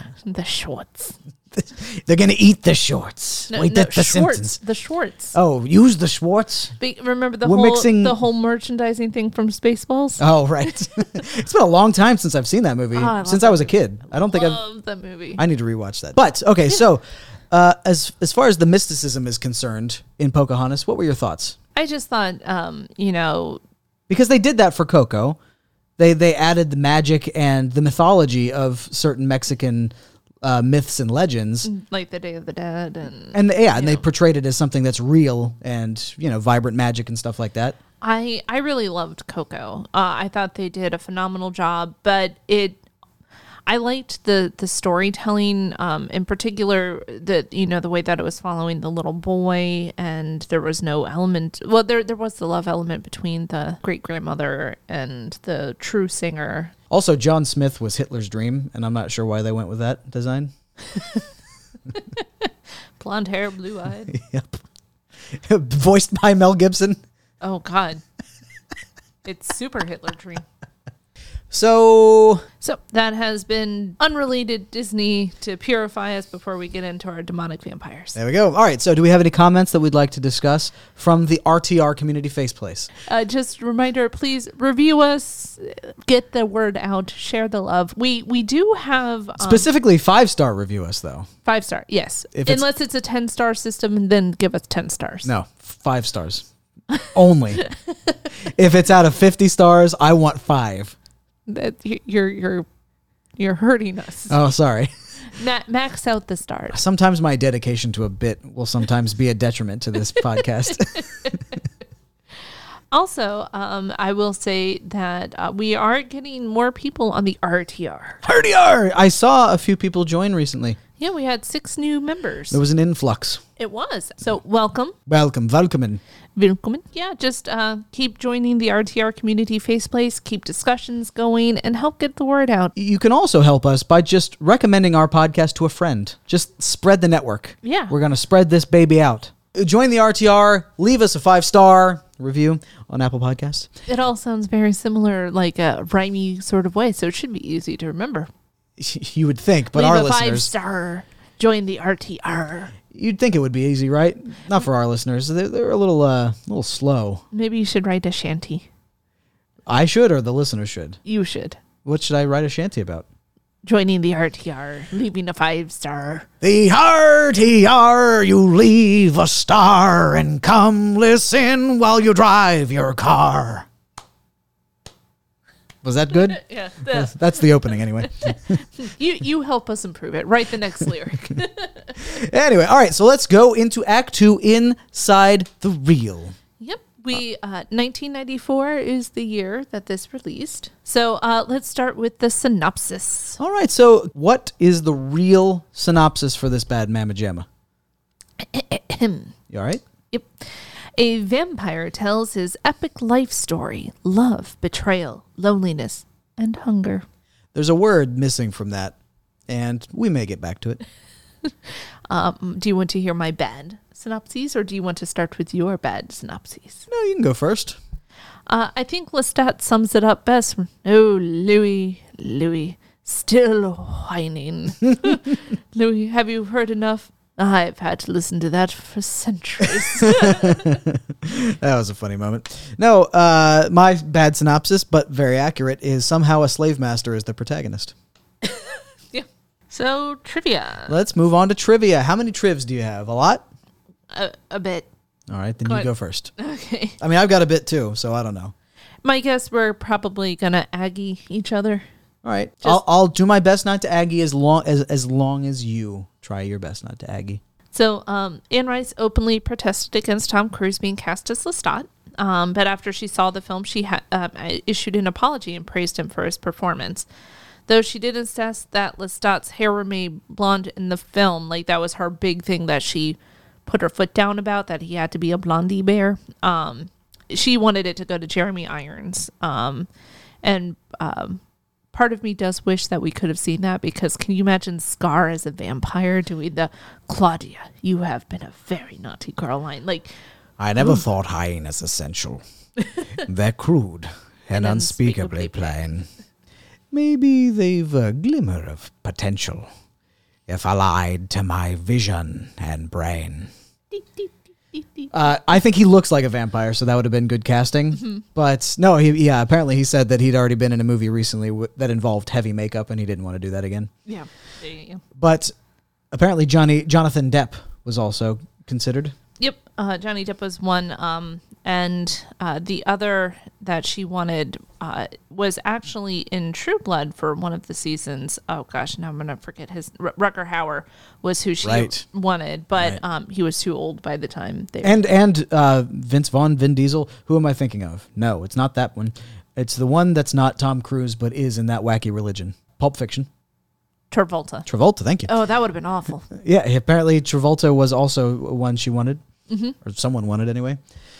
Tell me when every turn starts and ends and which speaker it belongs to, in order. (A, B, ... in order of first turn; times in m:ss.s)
0:00.2-0:01.2 A
0:01.5-0:04.6 B
0:03.5-0:05.3 A
0:05.3-0:06.8 B
0:06.8-0:10.7 A
0:07.4-0:08.2 B
0:10.2-0:14.6 B
0:12.9-0:15.4 A
0:15.4-0:21.6 B
0:21.7-0:23.6 A
0:24.1-0:25.4 B
0:26.0-0:31.7 B
0:31.6-0:34.0 A
0:33.3-0:37.8 B
0:38.0-0:42.8 A
0:43.6-0:56.7 A
0:56.9-1:01.2 B
1:02.1-1:04.1 A
1:04.1-1:04.6 B
1:05.3-1:07.0 B
1:07.4-1:08.0 A
1:09.2-1:10.4 A
1:11.5-1:12.5 B
1:12.6-1:18.2 A
1:18.1-1:22.9 B
1:23.0-1:29.7 A
1:29.4-1:31.3 B
1:31.4-1:35.3 A
1:32.3-1:32.6 B
1:35.2-1:36.5 B
1:37.0-1:37.7 B
1:37.6-1:38.1 A
1:38.4-1:40.9 B
1:41.5-1:42.7 A
1:43.4-1:44.4 A
1:44.3-1:44.9 B
1:45.3-1:46.8 A
1:46.7-1:51.4 B
1:51.0-1:51.3 A
1:52.9-1:58.2 A
1:58.2-2:00.8 B
2:01.0-2:02.6 A
2:02.5-2:03.4 B
2:03.6-2:05.0 A
2:05.1-2:06.0 B
2:06.4-2:12.7 A
2:12.8-2:23.7 B
2:17.6-2:17.9 A
2:23.9-2:28.3 A
2:28.8-2:30.5 B
2:29.7-2:32.7 A
2:32.9-2:37.2 B
2:37.3-2:38.7 A
2:39.7-2:41.0 B
2:41.0-2:41.6 A
2:41.8-2:43.0 B
2:43.6-2:46.3 A
2:46.4-2:53.7 B
2:55.8-2:58.6 B
2:56.2-2:57.4 A
2:58.2-3:02.0 A
3:02.0-3:06.4 B
3:06.6-3:13.4 A
3:13.4-3:17.4 B
3:18.4-3:19.3 A
3:19.5-3:19.8 B
3:20.1-3:27.0 A
3:27.5-3:28.9 B
3:29.5-3:30.8 B
3:32.1-3:36.8 A
3:36.9-3:37.8 B
3:38.5-3:50.8 A
3:49.9-3:57.9 B
3:58.4-4:00.9 A
4:00.9-4:03.4 B
4:04.1-4:04.9 A
4:05.3-4:06.3 B
4:05.6-4:07.0 A
4:07.0-4:08.5 B
4:09.0-4:11.8 A
4:12.2-4:17.4 B
4:17.7-4:27.1 A
4:27.7-4:39.9 A
4:40.4-4:41.4 A
4:41.9-4:50.1 A
4:50.6-4:52.4 B
4:53.2-4:56.1 B
4:54.5-4:55.8 A
4:56.9-4:59.7 B
5:00.5-5:03.5 B
5:03.9-5:05.1 A
5:05.1-5:13.9 B
5:14.0-5:15.0 A
5:15.2-5:15.5 B
5:16.1-5:19.2 B
5:19.4-5:35.0 A
5:31.6-5:32.0 B
5:34.8-5:43.3 B
5:44.1-5:44.7 A
5:44.7-5:45.3 B
5:45.3-5:46.3 A
5:46.3-5:49.2 B
5:49.5-5:49.7 A
5:49.8-5:50.8 B